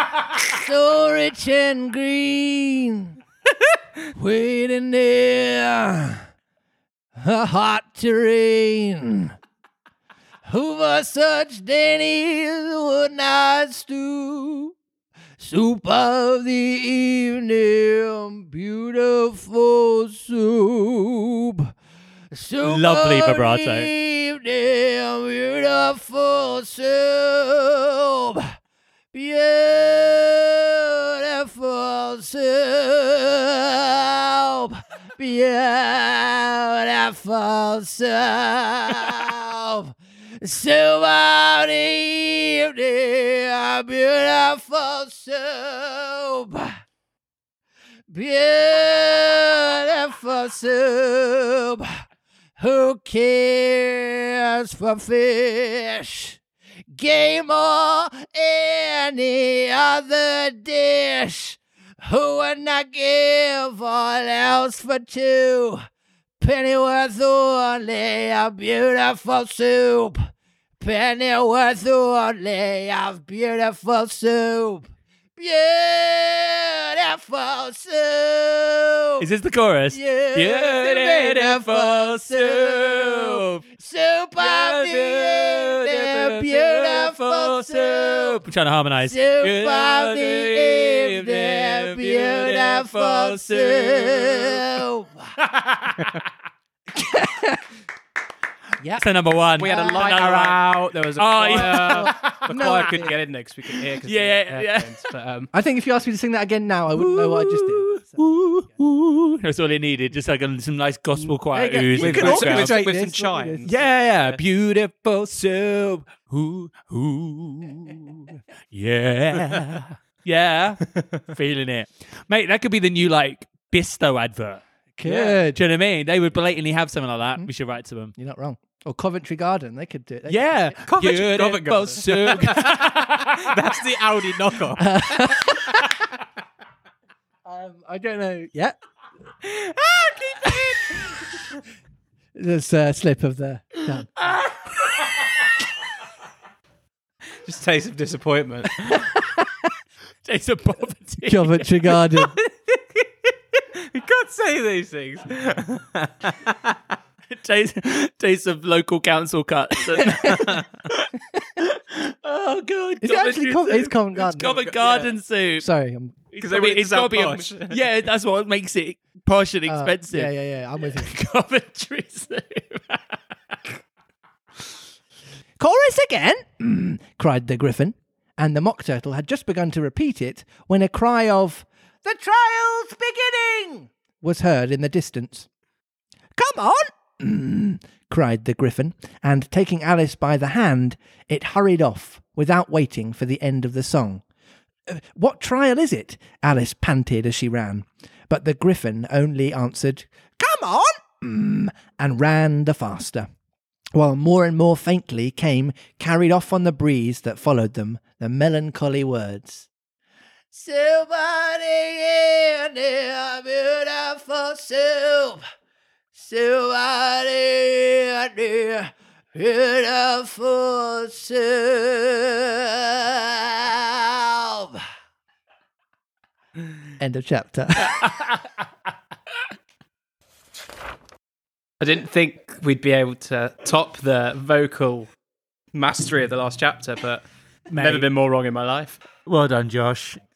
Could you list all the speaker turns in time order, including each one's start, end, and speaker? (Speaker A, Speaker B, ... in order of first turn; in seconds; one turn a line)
Speaker A: 0.4-3.1
Speaker A: 4.1-6.2
Speaker A: 7.2-9.3
Speaker A: 10.5-14.7
Speaker A: 15.4-21.7
Speaker A: 22.3-28.5
Speaker B: 22.6-23.9
Speaker A: 29.1-46.8
Speaker A: 48.1-51.9
Speaker A: 52.6-56.4
Speaker A: 56.9-65.8
Speaker A: 66.4-70.2
Speaker A: 70.8-79.2
Speaker B: 79.2-83.6
Speaker A: 79.9-88.4
Speaker B: 84.4-94.7
Speaker A: 89.0-95.3
Speaker B: 95.4-96.1
Speaker A: 96.9-97.6
Speaker A: 98.8-99.0
Speaker B: 99.0-102.9
Speaker C: 99.6-105.5
Speaker A: 99.6-100.2
Speaker A: 101.5-103.2
Speaker B: 103.7-105.0
Speaker A: 105.5-108.2
Speaker B: 106.9-112.8
Speaker A: 111.2-113.7
Speaker C: 112.0-113.7
Speaker B: 113.6-124.6
Speaker A: 125.0-125.6
Speaker C: 125.0-125.4
Speaker B: 125.5-128.1
Speaker A: 128.2-130.8
Speaker B: 130.3-133.5
Speaker C: 130.8-135.5
Speaker A: 134.8-135.9
Speaker A: 137.4-138.8
Speaker C: 139.4-141.0
Speaker A: 140.4-141.2
Speaker A: 142.3-144.4
Speaker C: 147.4-149.1
Speaker A: 149.2-149.5
Speaker B: 150.2-152.0
Speaker A: 151.2-152.4
Speaker C: 152.2-152.8
Speaker C: 153.8-156.7
Speaker B: 157.3-165.7
Speaker A: 160.0-160.5
Speaker A: 163.0-164.6
Speaker C: 164.4-165.1
Speaker A: 165.6-166.2
Speaker B: 166.3-173.7
Speaker C: 166.4-167.8
Speaker A: 169.7-171.1
Speaker A: 175.6-185.5
Speaker A: 186.3-194.2
Speaker A: 194.9-203.3
Speaker A: 203.9-209.7
Speaker A: 210.5-215.4
Speaker A: 216.1-224.8
Speaker A: 227.0-228.0
Speaker B: 227.8-228.4
Speaker C: 231.8-235.1
Speaker C: 235.7-239.0
Speaker B: 237.7-238.1
Speaker B: 239.2-240.2